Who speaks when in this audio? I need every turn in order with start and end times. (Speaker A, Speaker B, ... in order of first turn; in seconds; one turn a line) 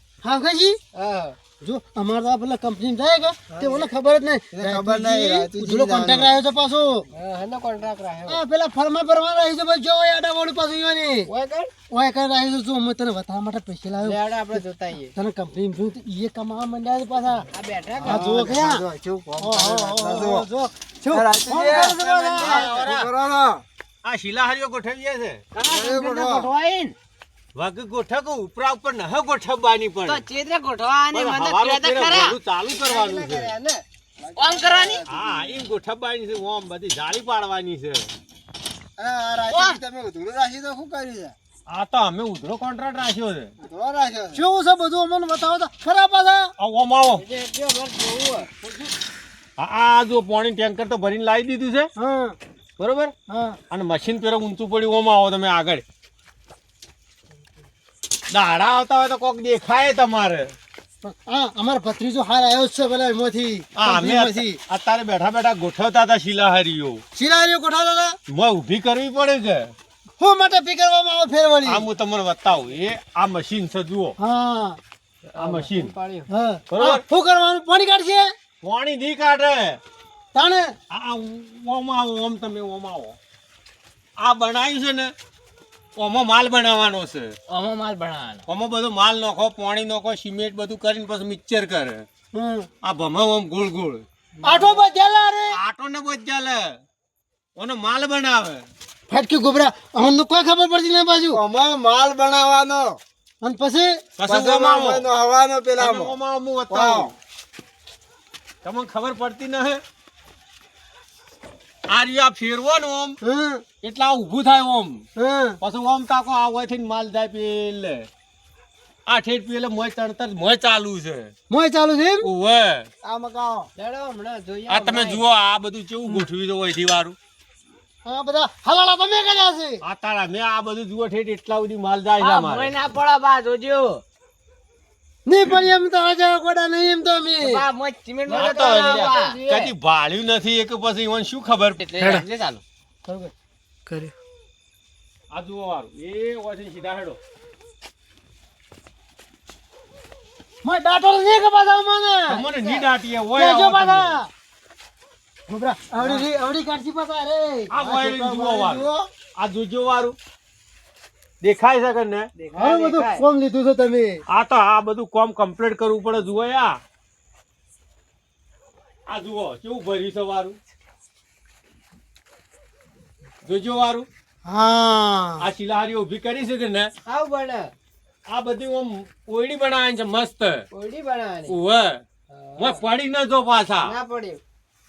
Speaker A: 0.2-0.8
Speaker B: 0.9-1.4
Speaker A: 1.6-7.1
Speaker C: 4.5-6.3
Speaker B: 7.1-8.4
Speaker A: 8.3-11.3
Speaker B: 11.3-11.7
Speaker A: 11.9-14.6
Speaker B: 14.0-15.1
Speaker A: 15.1-17.4
Speaker B: 17.5-18.3
Speaker A: 18.0-18.9
Speaker C: 18.0-20.4
Speaker A: 19.4-22.9
Speaker C: 21.1-23.6
Speaker D: 22.4-23.1
Speaker D: 24.0-25.4
Speaker E: 25.5-26.9
Speaker C: 25.7-26.5
Speaker D: 27.5-30.2
Speaker E: 30.1-32.3
Speaker D: 31.1-33.5
Speaker B: 32.9-33.8
Speaker C: 34.2-35.6
Speaker E: 34.4-35.0
Speaker D: 35.1-38.1
Speaker C: 39.0-41.3
Speaker E: 39.5-39.8
Speaker D: 41.7-43.5
Speaker C: 43.6-44.4
Speaker A: 44.3-46.5
Speaker D: 46.6-47.2
Speaker B: 47.2-48.5
Speaker D: 49.6-51.9
Speaker A: 52.0-52.4
Speaker D: 52.8-53.1
Speaker A: 53.3-53.6
Speaker D: 53.7-55.8
Speaker D: 58.3-60.5
Speaker A: 61.0-64.6
Speaker D: 63.8-67.0
Speaker A: 67.1-68.2
Speaker D: 68.3-69.7
Speaker A: 70.2-71.8
Speaker D: 71.6-74.2
Speaker A: 74.2-74.8
Speaker B: 75.3-76.3
Speaker D: 75.4-75.9
Speaker A: 76.3-78.3
Speaker D: 76.7-77.0
Speaker D: 78.6-79.8
Speaker A: 80.3-80.7
Speaker D: 80.9-83.2
Speaker D: 84.2-85.1
Speaker D: 86.0-87.3
Speaker E: 87.5-88.4
Speaker D: 88.5-92.0
Speaker A: 92.3-92.7
Speaker D: 92.8-94.0
Speaker A: 94.4-95.5
Speaker D: 95.5-96.8
Speaker D: 97.6-98.6
Speaker A: 99.1-101.4
Speaker C: 101.3-103.0
Speaker A: 103.4-104.0
Speaker D: 104.2-105.1
Speaker C: 104.2-106.2
Speaker D: 105.8-107.1
Speaker C: 106.7-107.1
Speaker D: 108.6-109.8
Speaker D: 111.9-113.2
Speaker A: 113.2-113.6
Speaker D: 113.8-115.0
Speaker A: 115.2-115.6
Speaker D: 115.6-118.0
Speaker D: 119.1-121.3
Speaker A: 121.5-122.3
Speaker D: 122.2-122.9
Speaker C: 123.0-123.7
Speaker B: 123.8-125.2
Speaker D: 124.7-127.2
Speaker A: 128.0-129.8
Speaker D: 129.8-132.7
Speaker E: 132.2-134.0
Speaker A: 135.2-137.6
Speaker E: 137.4-139.7
Speaker B: 138.2-139.5
Speaker D: 138.3-142.2
Speaker E: 141.9-142.6
Speaker A: 143.1-143.3
Speaker D: 145.3-147.2
Speaker A: 150.6-152.8
Speaker D: 152.3-154.2
Speaker A: 153.4-154.3
Speaker A: 155.5-159.1
Speaker D: 157.7-160.2
Speaker D: 161.4-162.3
Speaker B: 162.4-163.2
Speaker A: 162.5-164.2
Speaker D: 164.3-166.8
Speaker D: 169.1-170.6
Speaker D: 173.4-174.1
Speaker A: 174.4-175.5
Speaker D: 175.4-176.9
Speaker B: 177.1-177.7
Speaker D: 178.3-180.6
Speaker B: 180.7-181.5
Speaker D: 181.5-182.0
Speaker B: 182.3-182.8
Speaker D: 182.6-183.9
Speaker B: 183.8-184.4